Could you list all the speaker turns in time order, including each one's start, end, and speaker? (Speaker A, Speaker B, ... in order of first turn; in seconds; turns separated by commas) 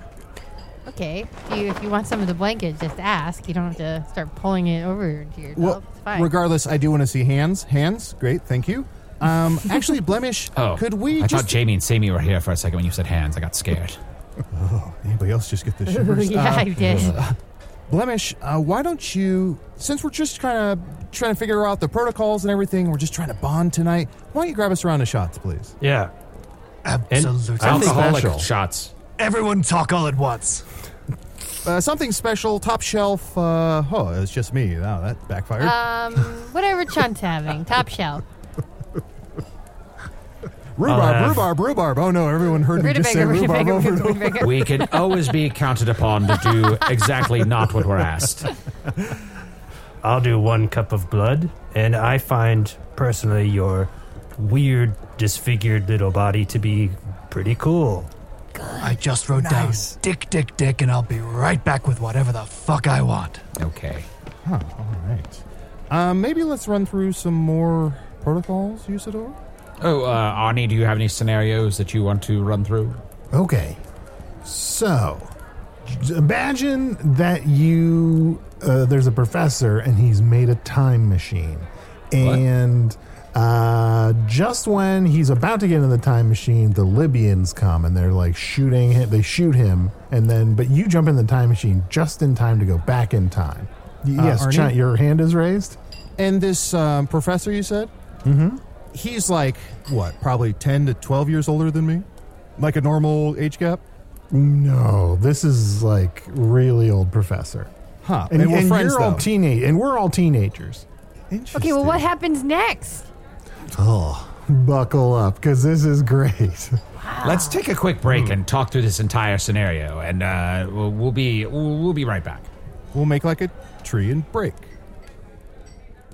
Speaker A: 0.9-6.3, Speaker B: 5.5-11.6, Speaker C: 10.5-14.0, Speaker B: 14.5-17.4, Speaker A: 15.9-17.2, Speaker B: 17.9-25.8, Speaker D: 25.8-26.1, Speaker E: 26.8-28.0, Speaker D: 27.1-28.3, Speaker C: 27.6-28.9, Speaker F: 27.8-28.5, Speaker E: 29.2-30.6, Speaker B: 31.6-35.8, Speaker A: 35.6-38.2, Speaker B: 40.8-44.5, Speaker D: 40.8-41.5, Speaker A: 42.7-45.0, Speaker C: 44.4-48.5, Speaker D: 50.0-58.1, Speaker A: 58.5-59.0, Speaker E: 58.8-63.4, Speaker B: 59.4-59.9, Speaker C: 63.5-64.1, Speaker B: 64.4-69.4, Speaker C: 69.8-73.0, Speaker F: 73.3-73.8, Speaker F: 74.4-75.3, Speaker F: 75.8-95.8, Speaker B: 94.2-94.8, Speaker B: 96.2-97.9, Speaker F: 98.2-98.6, Speaker B: 98.9-102.0, Speaker B: 102.6-103.8, Speaker F: 104.3-107.7, Speaker B: 108.0-109.2, Speaker F: 108.3-110.8, Speaker B: 111.3-112.1, Speaker A: 111.5-113.1, Speaker F: 113.7-116.8, Speaker A: 117.0-117.6, Speaker C: 117.2-122.5, Speaker D: 118.0-118.4, Speaker B: 122.9-124.7